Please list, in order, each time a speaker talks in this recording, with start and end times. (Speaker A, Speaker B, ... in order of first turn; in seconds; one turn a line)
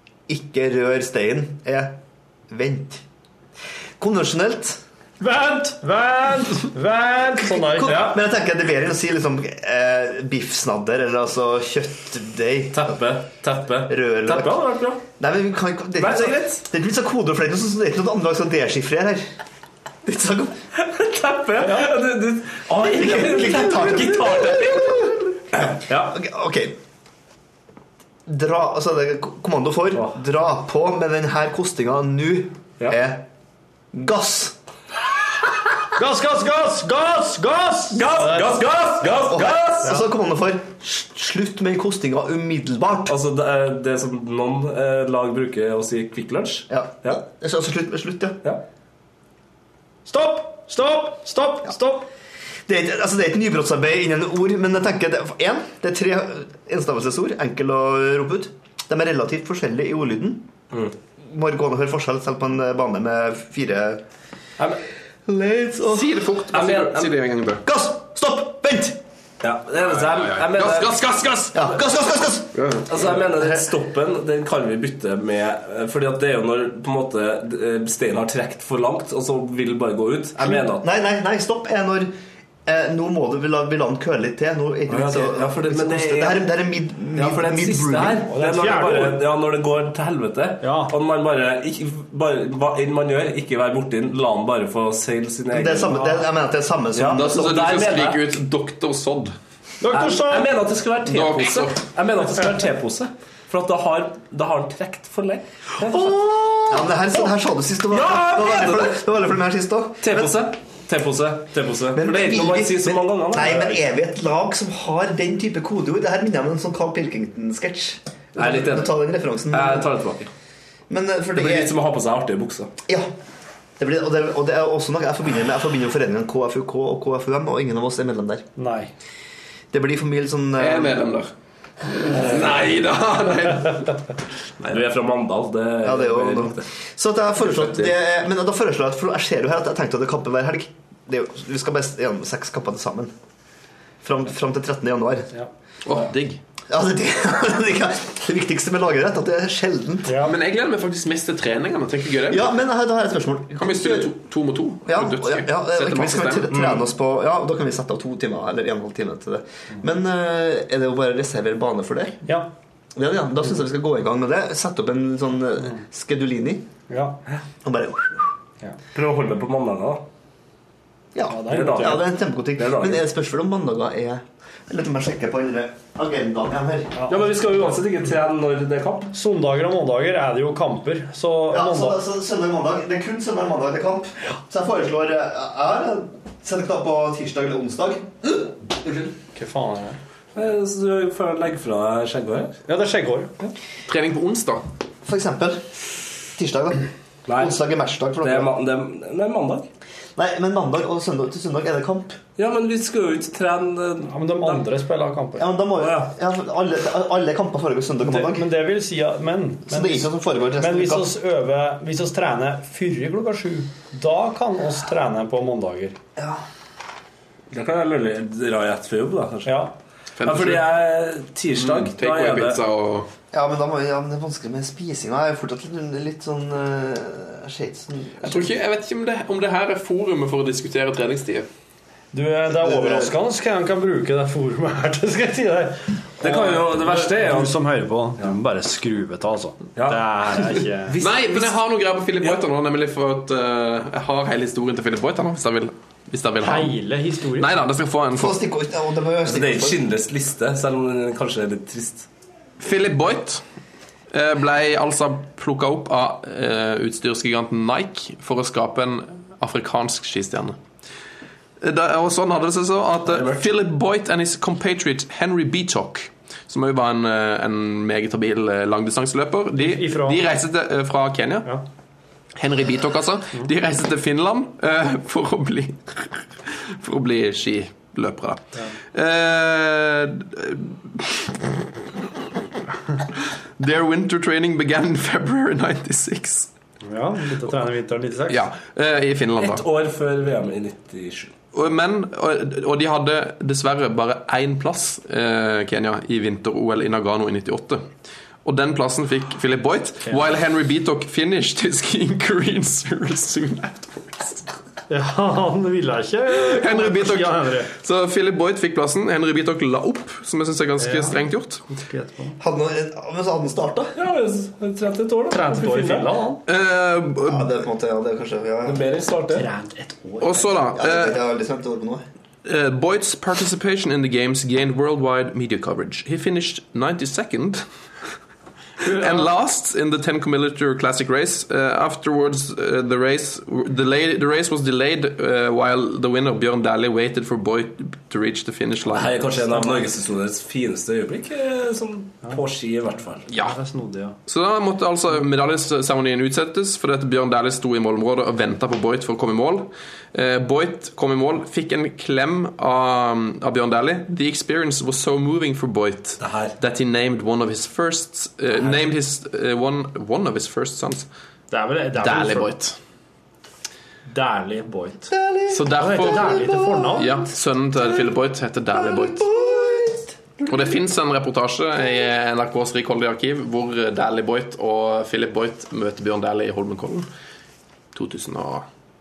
Speaker A: 0.3-1.9
Speaker A: 2.5-3.0
Speaker A: 4.0-4.8
Speaker B: 5.2-8.2
Speaker A: 7.5-12.9
Speaker C: 12.7-15.0
Speaker A: 13.9-19.2
Speaker C: 16.0-16.6
Speaker A: 20.0-20.5
Speaker C: 20.7-25.0
Speaker B: 21.6-21.9
Speaker A: 22.8-26.8
Speaker A: 28.3-33.2
Speaker C: 29.9-30.2
Speaker A: 33.9-34.5
Speaker B: 36.0-38.6
Speaker C: 37.9-40.0
Speaker A: 39.2-43.1
Speaker C: 43.1-47.2
Speaker A: 46.7-48.4
Speaker B: 50.0-52.1
Speaker A: 52.7-60.5
Speaker A: 61.3-64.0
Speaker A: 65.3-66.2
Speaker D: 65.9-67.6
Speaker C: 66.5-67.2
Speaker A: 67.6-69.0
Speaker C: 69.4-70.9
Speaker D: 70.0-71.7
Speaker A: 71.5-73.6
Speaker D: 72.5-72.8
Speaker C: 72.8-80.9
Speaker A: 80.4-82.1
Speaker A: 82.7-88.3
Speaker C: 84.9-86.5
Speaker C: 87.1-96.1
Speaker B: 88.3-89.2
Speaker B: 90.6-91.0
Speaker A: 95.5-97.6
Speaker C: 96.9-98.3
Speaker D: 97.2-99.3
Speaker B: 99.8-100.6
Speaker C: 99.9-106.4
Speaker D: 101.0-101.8
Speaker A: 106.1-110.3
Speaker C: 107.9-109.0
Speaker C: 110.0-113.8
Speaker A: 111.9-119.9
Speaker C: 118.3-120.3
Speaker A: 120.9-121.7
Speaker C: 121.3-122.7
Speaker A: 123.8-128.4
Speaker B: 128.6-128.9
Speaker A: 129.7-131.1
Speaker D: 130.6-131.3
Speaker D: 131.9-133.9
Speaker C: 134.7-136.6
Speaker A: 135.8-143.1
Speaker A: 144.0-145.3
Speaker D: 145.8-146.4
Speaker A: 146.7-150.2
Speaker B: 150.1-150.3
Speaker D: 150.2-152.5
Speaker A: 152.3-154.1
Speaker D: 153.6-156.5
Speaker A: 154.8-162.2
Speaker C: 156.5-156.8
Speaker B: 162.2-162.5
Speaker A: 162.9-166.7
Speaker B: 166.9-167.2
Speaker A: 167.6-168.3
Speaker C: 168.9-170.0
Speaker A: 171.1-176.9
Speaker B: 171.3-172.0
Speaker C: 171.4-173.1
Speaker B: 176.9-177.3
Speaker C: 177.1-179.1
Speaker B: 179.1-182.0
Speaker A: 181.5-189.1
Speaker B: 189.3-190.0
Speaker C: 190.3-192.6
Speaker B: 192.7-193.3
Speaker D: 193.9-194.6
Speaker A: 195.0-195.7
Speaker A: 196.3-196.8
Speaker C: 197.3-197.6
Speaker A: 197.4-198.5
Speaker C: 198.2-199.7
Speaker A: 200.2-202.2
Speaker C: 202.4-204.6
Speaker B: 204.1-205.5
Speaker A: 205.4-208.4
Speaker C: 205.8-206.1
Speaker B: 208.1-215.9
Speaker A: 209.7-211.1
Speaker C: 217.5-219.6
Speaker B: 219.4-219.7
Speaker D: 220.2-220.7
Speaker C: 220.2-222.6
Speaker D: 221.5-223.1
Speaker A: 223.3-228.5
Speaker D: 228.2-231.5
Speaker B: 232.1-241.0
Speaker A: 232.6-233.1
Speaker C: 236.2-237.6
Speaker C: 239.8-240.4
Speaker C: 240.9-241.6
Speaker D: 241.0-246.8
Speaker C: 242.2-242.4
Speaker B: 246.4-247.6
Speaker D: 247.3-248.4
Speaker A: 248.1-249.8
Speaker C: 249.2-252.1
Speaker D: 252.6-253.4
Speaker D: 254.1-260.6
Speaker D: 261.6-271.5
Speaker C: 263.1-263.5
Speaker B: 269.5-270.2
Speaker D: 272.3-278.4
Speaker D: 278.9-281.4
Speaker D: 283.6-286.5
Speaker B: 286.8-288.4
Speaker D: 288.3-289.6
Speaker C: 289.4-291.3
Speaker D: 291.5-297.9
Speaker D: 298.4-304.5
Speaker B: 304.9-307.7
Speaker D: 306.3-311.6
Speaker B: 310.8-312.4
Speaker A: 312.4-313.9
Speaker C: 313.9-316.1
Speaker B: 315.3-316.4
Speaker D: 316.5-317.5
Speaker A: 317.2-318.9
Speaker C: 318.6-319.5
Speaker B: 319.3-320.7
Speaker D: 320.2-321.2
Speaker A: 320.8-322.0
Speaker D: 322.4-327.6
Speaker D: 328.8-339.2
Speaker B: 328.8-329.3
Speaker C: 338.9-343.3
Speaker B: 339.5-339.8
Speaker B: 343.3-344.1
Speaker D: 343.3-343.6
Speaker D: 344.3-361.1
Speaker C: 356.2-356.6
Speaker B: 361.5-362.5
Speaker D: 361.9-362.8
Speaker B: 364.1-365.1
Speaker A: 365.1-366.9
Speaker D: 365.5-369.3
Speaker B: 365.7-367.2
Speaker A: 367.8-368.1
Speaker A: 368.7-370.8
Speaker D: 370.5-377.1
Speaker D: 377.9-378.6